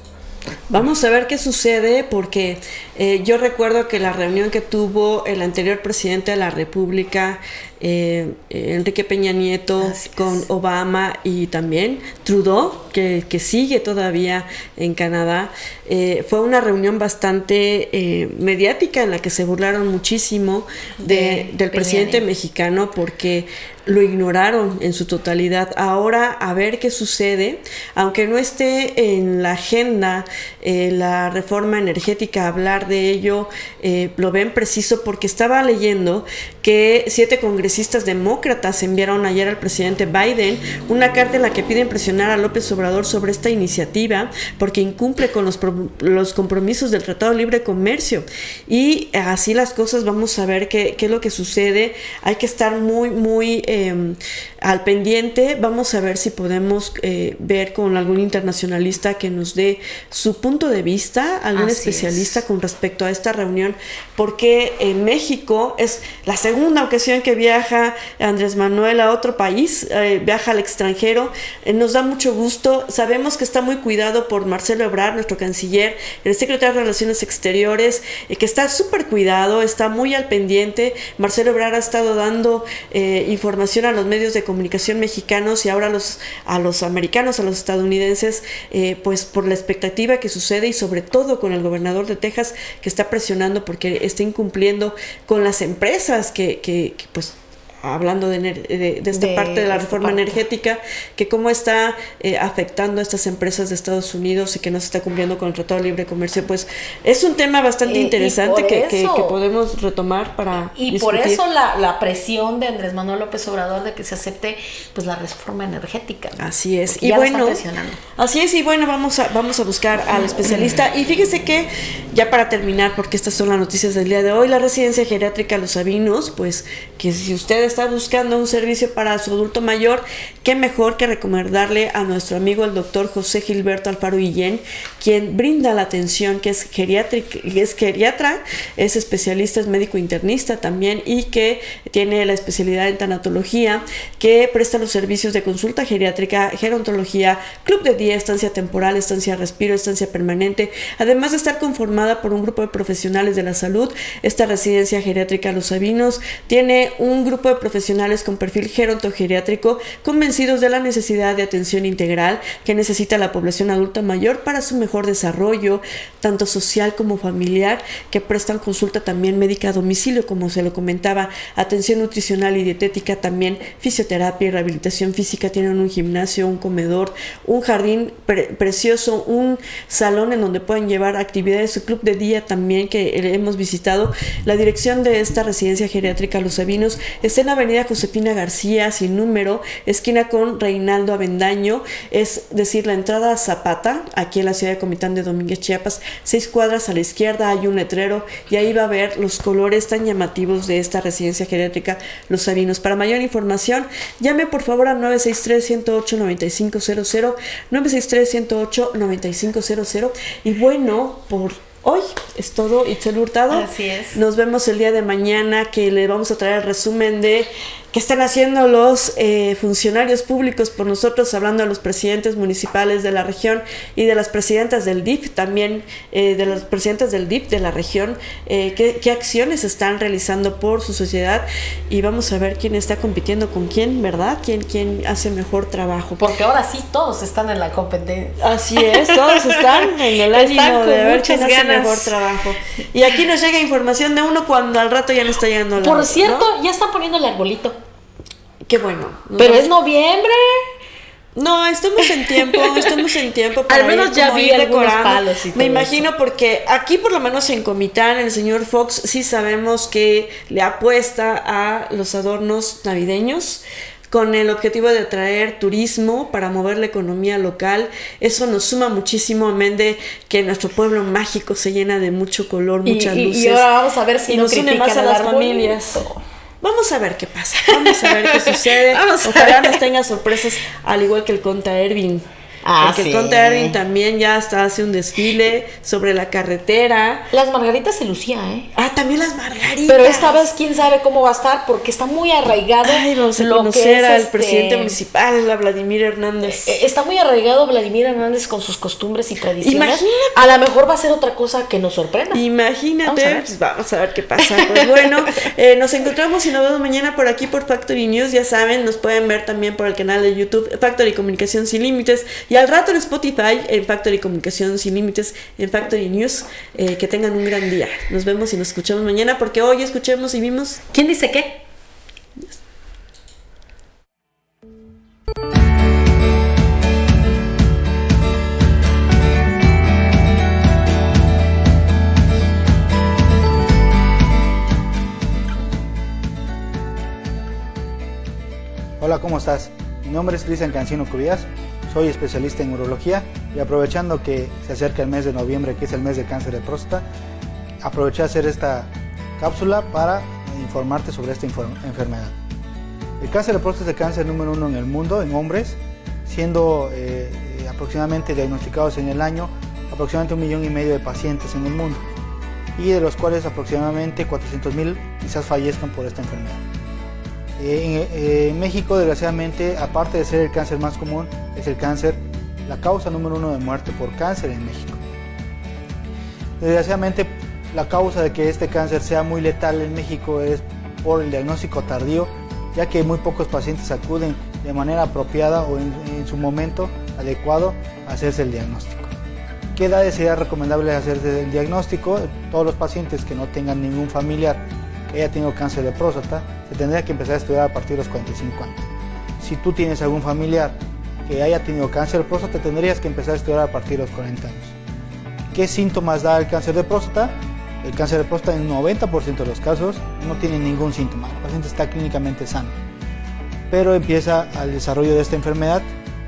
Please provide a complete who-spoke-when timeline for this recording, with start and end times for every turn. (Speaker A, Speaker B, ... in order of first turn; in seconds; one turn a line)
Speaker A: 0.7-111.4
Speaker B: 9.8-10.4
Speaker B: 21.0-22.3
Speaker B: 61.6-62.4
Speaker B: 99.1-100.4
Speaker B: 107.8-109.4
Speaker B: 110.8-118.0
Speaker A: 116.4-117.6
Speaker A: 118.2-236.3
Speaker B: 213.5-214.2
Speaker B: 236.2-242.1
Speaker A: 238.4-246.5
Speaker B: 245.8-247.8
Speaker A: 248.7-249.7
Speaker B: 249.4-250.6
Speaker A: 251.4-273.6
Speaker B: 252.3-252.7
Speaker B: 253.7-256.1
Speaker B: 272.9-276.2
Speaker A: 274.3-276.0
Speaker A: 276.6-282.3
Speaker B: 277.8-279.8
Speaker B: 282.6-283.8
Speaker A: 282.8-287.3
Speaker B: 287.3-288.7
Speaker A: 288.8-290.4
Speaker B: 289.8-295.0
Speaker A: 292.8-296.7
Speaker B: 296.5-302.4
Speaker A: 299.6-300.3
Speaker A: 302.3-320.8
Speaker B: 303.1-303.5
Speaker B: 304.4-305.2
Speaker B: 320.9-321.6
Speaker C: 339.0-347.1
Speaker C: 347.8-352.4
Speaker C: 353.2-362.0
Speaker C: 362.8-366.6
Speaker C: 367.6-375.0
Speaker C: 376.6-389.1
Speaker C: 389.8-398.8
Speaker C: 399.4-400.8
Speaker C: 401.3-404.8
Speaker C: 405.5-412.8
Speaker C: 413.7-415.9